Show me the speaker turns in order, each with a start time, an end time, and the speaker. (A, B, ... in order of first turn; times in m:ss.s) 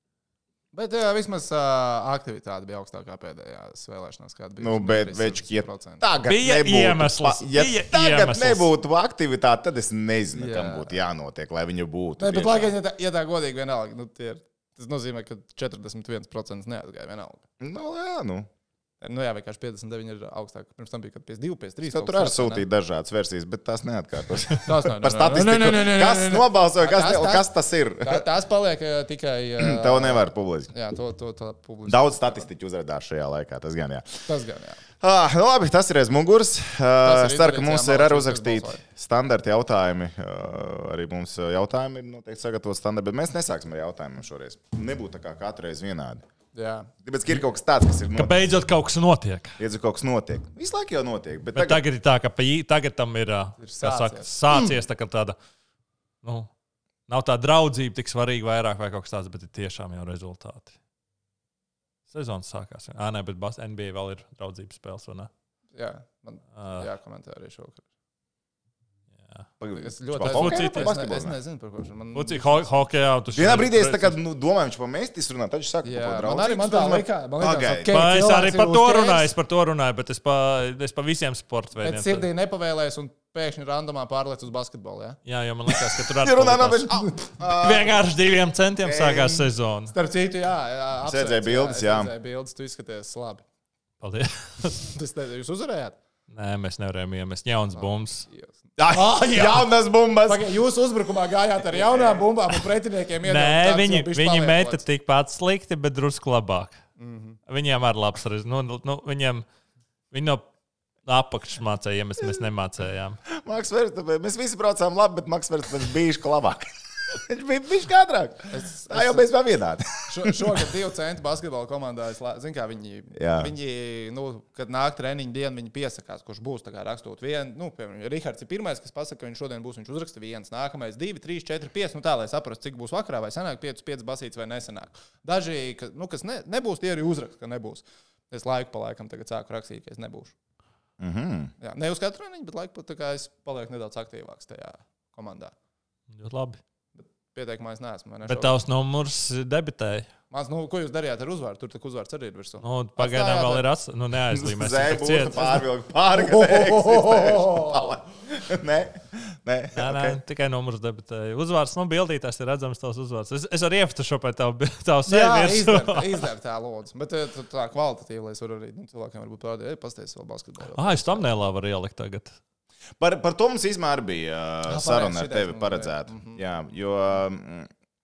0:00.7-0:06.0 A
0:04.6-0:12.7 B
0:06.2-0:08.7 C
0:10.3-0:10.9 A
0:12.2-0:17.4 A
0:17.6-0:18.5 B
0:19.0-0:22.6 A
0:21.9-0:28.3 B
0:24.6-0:27.5 A
0:28.0-0:32.5 A
0:29.6-0:30.7 B
0:31.9-0:34.2 B
0:34.2-0:34.8 A
0:35.0-0:46.2 B
0:37.0-0:38.8 A
0:46.5-0:46.9 A
0:47.0-0:48.4 B
0:48.1-0:49.6 C
0:49.6-0:51.8 B
0:51.5-0:55.4 C
0:53.6-0:54.3 A
0:56.2-0:56.5 C
0:57.1-1:00.7 C
1:02.1-1:05.3 C
1:05.7-1:07.8 A
1:06.6-1:06.8 C
1:09.6-1:11.4 B
1:09.8-1:12.7 A
1:10.2-1:10.9 C
1:12.1-1:14.2 C
1:13.3-1:17.9 B
1:15.8-1:19.3 A
1:17.9-1:22.3 C
1:21.8-1:25.2 A
1:25.2-1:29.9 C
1:26.2-1:28.0 B
1:28.8-1:29.4 B
1:29.9-1:33.4 A
1:31.0-1:32.1 B
1:34.0-1:34.8 C
1:34.8-1:36.0 A
1:36.3-1:38.2 C
1:37.7-1:39.7 A
1:38.8-1:40.5 B
1:40.2-1:44.8 A
1:41.7-1:42.2 B
1:43.2-1:46.8 C
1:47.0-1:47.4 A
1:47.5-1:49.4 C
1:50.1-1:50.4 C
1:51.0-1:53.2 C
1:53.3-2:00.4 B
1:58.5-1:59.3 A
2:00.0-2:20.3 A
2:03.1-2:03.5 B
2:21.0-2:21.5 B
2:21.6-2:25.5 A
2:26.1-2:26.6 C
2:27.0-2:28.6 A
2:28.2-2:30.1 C
2:30.3-2:33.6 A
2:32.6-2:35.5 C
2:34.3-2:40.2 B
2:36.1-2:38.0 A
2:39.7-2:46.2 C
2:45.1-2:51.3 A
2:50.7-2:52.4 C
2:53.0-2:57.7 B
2:54.6-2:56.4 A